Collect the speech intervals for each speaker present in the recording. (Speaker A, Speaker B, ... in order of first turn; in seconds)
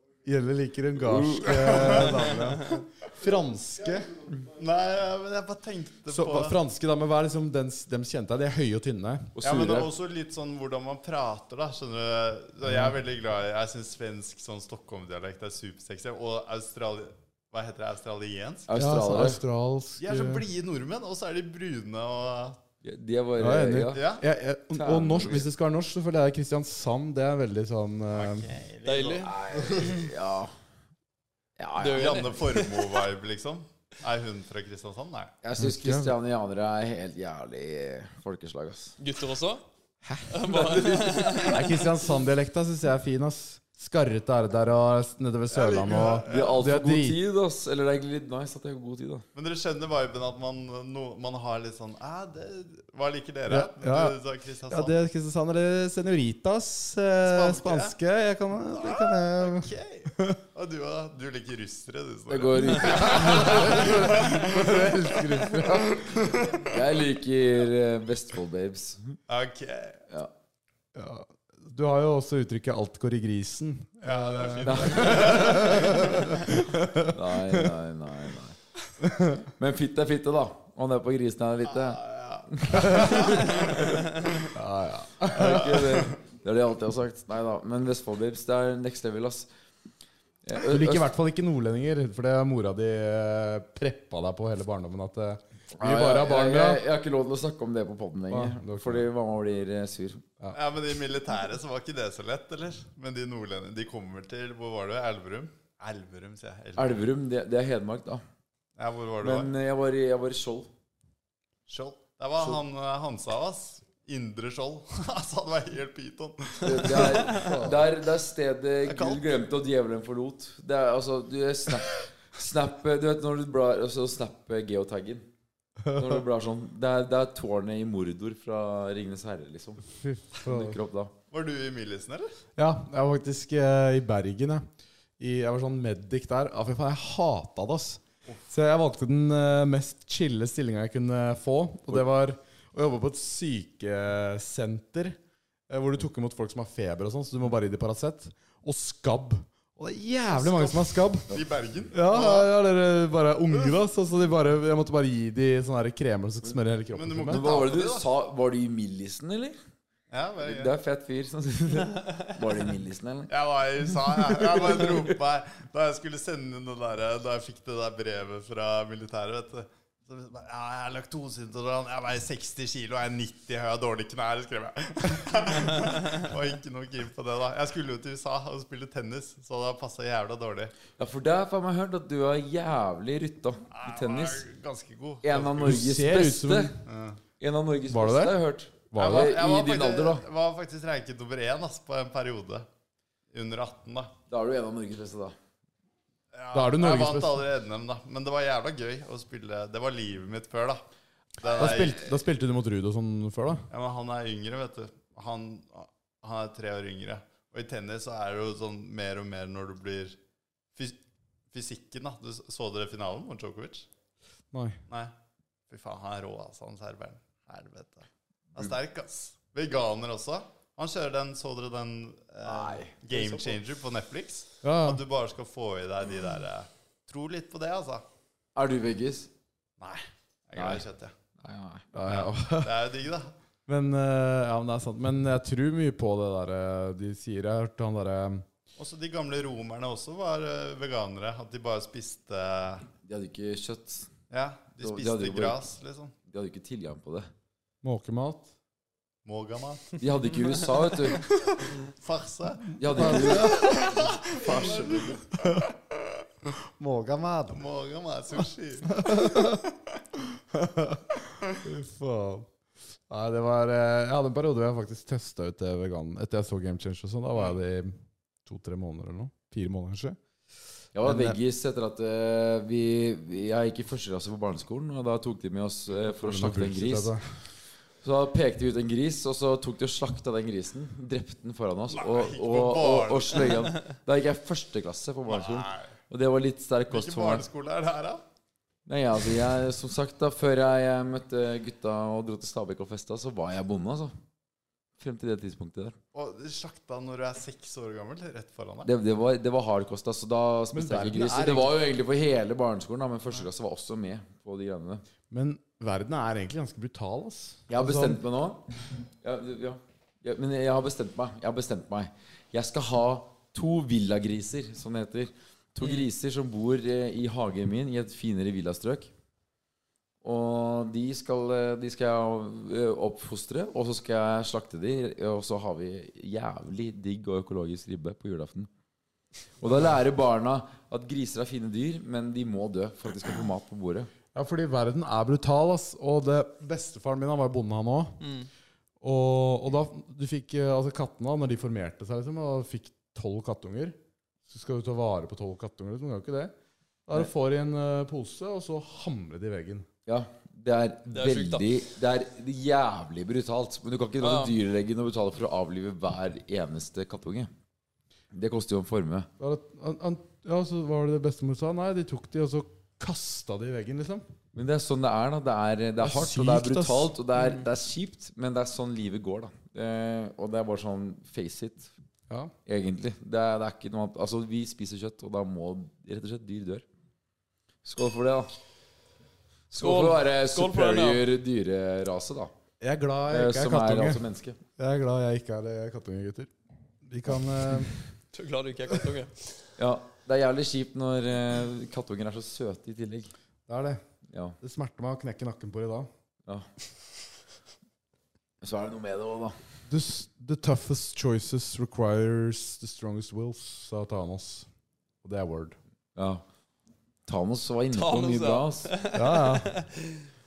Speaker A: 0.2-4.1, 6.1-9.3, 12.6-12.9, 18.7-20.4, 23.4-28.5, 35.6-36.1, 40.0-40.3, 41.5-47.2, 53.5-54.2, 54.7-60.4, 62.6-66.5, 70.9-77.7, 79.0-79.4, 82.7-83.3, 84.5-86.1, 90.6-96.8, 98.3-99.1, 117.3-117.8, 125.8-126.2, 130.0-130.8, 132.6-134.7, 135.2-145.2, 145.7-151.3, 151.9-157.5, 185.6-186.8, 187.9-188.3, 188.9-189.3, 196.5-197.4, 201.4-203.7, 214.5-214.8, 224.6-225.0, 231.9-232.7, 233.7-238.4, 247.8-248.5, 252.9-254.7, 256.5-257.6, 258.9-259.6, 260.2-262.5, 263.1-270.2, 271.0-271.4, 276.1-277.2, 300.7-301.8, 305.3-308.2, 334.3-338.2, 339.0-344.0, 344.5-346.5, 347.1-349.9, 359.4-364.2, 366.0-367.1, 382.8-384.2, 384.8-386.5, 387.0-388.0, 393.7-394.0, 394.6-396.1, 399.9-404.7, 405.2-405.8, 409.1-409.7
Speaker B: 1.0-1.8, 9.3-9.9, 18.7-19.4, 22.8-24.1, 24.7-25.4, 29.2-30.5, 31.6-32.3, 35.4-39.0, 40.4-41.6, 46.3-49.2, 62.3-64.1, 66.7-69.2, 74.6-75.7, 77.1-78.6, 79.6-84.0, 85.3-89.5, 90.4-91.1, 95.8-100.2, 106.8-108.2, 109.2-110.7, 116.6-125.3, 125.9-129.8, 130.4-131.1, 157.3-159.6, 160.4-163.3, 164.3-164.8, 180.9-184.4, 185.2-186.7, 187.4-190.2, 194.3-195.3, 222.4-223.4, 228.5-229.3, 230.5-230.8, 231.4-231.8, 243.0-244.1, 244.8-245.6, 246.3-247.3, 250.0-251.2, 252.8-255.2, 270.9-277.1, 278.0-287.4, 288.9-294.1, 295.0-295.9, 298.8-305.0, 307.7-308.6, 309.2-319.1, 320.2-328.7, 329.6-334.1, 350.1-357.5, 358.3-359.3, 364.5-371.9, 372.6-376.8, 377.8-378.5, 379.7-382.5, 383.3-384.6, 389.8-393.3, 394.3-394.6, 398.6-399.6, 406.1-406.4, 407.3-408.9
Speaker C: 1.5-2.5, 4.5-6.5, 9.4-18.7, 20.0-22.6, 23.9-24.2, 28.1-29.3, 31.9-35.3, 45.5-46.6, 49.3-54.9, 57.2-57.9, 58.8-66.7, 69.3-70.0, 74.0-76.5, 81.7-83.9, 100.5-107.0, 108.8-109.5, 111.7-117.7, 118.8-119.2, 131.3-132.3, 150.3-152.5, 156.9-158.1, 160.1-160.7, 163.3-180.7, 183.7-185.8, 186.8-187.2, 189.0-192.7, 193.3-194.1, 196.3-200.8, 201.4-202.1, 203.7-210.2, 211.5-213.9, 215.7-228.0, 229.8-231.1, 232.1-233.3, 238.8-242.9, 244.3-246.1, 249.2-250.0, 251.8-255.6, 257.5-259.6, 281.9-283.7, 285.3-285.9, 286.9-288.2, 296.1-298.9
Speaker D: 28.8-29.9, 31.8-33.0, 39.0-39.6, 40.3-41.6, 338.2-338.5, 351.1-351.7, 354.2-354.5, 379.7-381.2, 388.3-389.3, 407.9-409.9